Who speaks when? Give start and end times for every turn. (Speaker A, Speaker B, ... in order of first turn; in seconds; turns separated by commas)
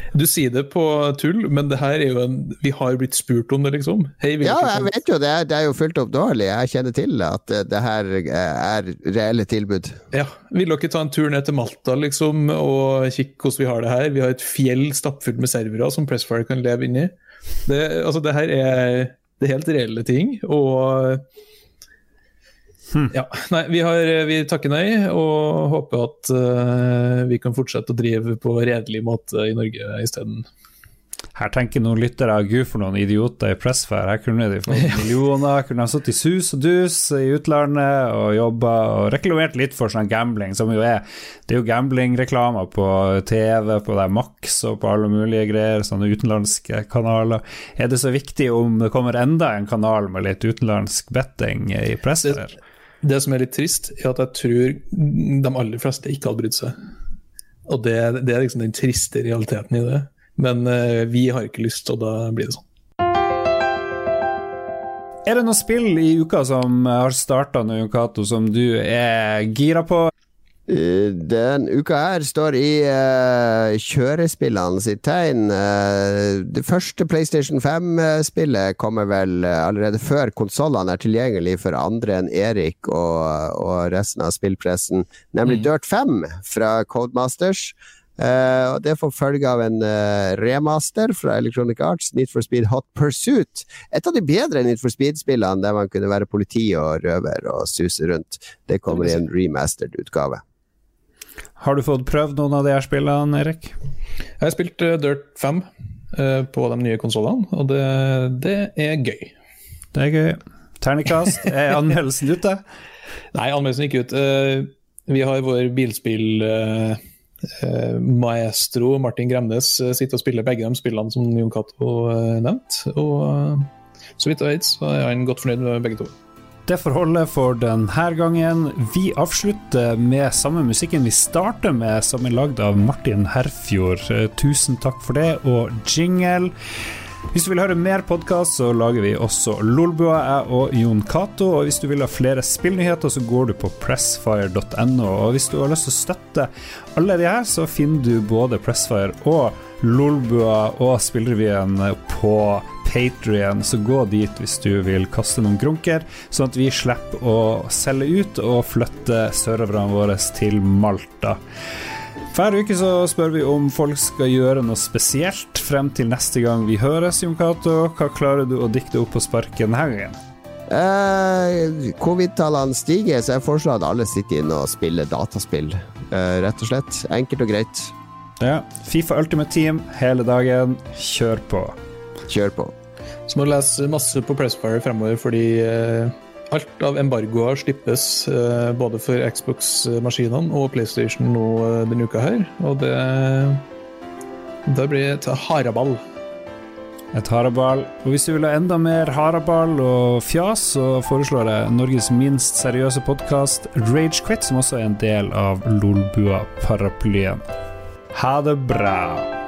Speaker A: 0.1-4.9, Speaker B: 4.4-10.0, Speaker A: 10.1-21.2, Speaker A: 23.1-30.5, Speaker C: 31.4-52.5, Speaker A: 53.0-56.8, Speaker A: 57.7-62.6, Speaker C: 65.3-70.1, Speaker B: 70.7-100.4, Speaker C: 101.6-103.8, Speaker A: 104.4-109.3, Speaker C: 109.9-112.6, Speaker A: 113.3-126.1, Speaker C: 126.7-136.5, Speaker C: 137.3-161.4, Speaker C: 162.3-170.2, Speaker B: 170.7-177.9, Speaker C: 178.4-181.8, Speaker B: 182.3-182.7, Speaker A: 183.3-193.7, Speaker A: 194.7-196.0, Speaker C: 197.1-207.4, Speaker C: 208.1-209.3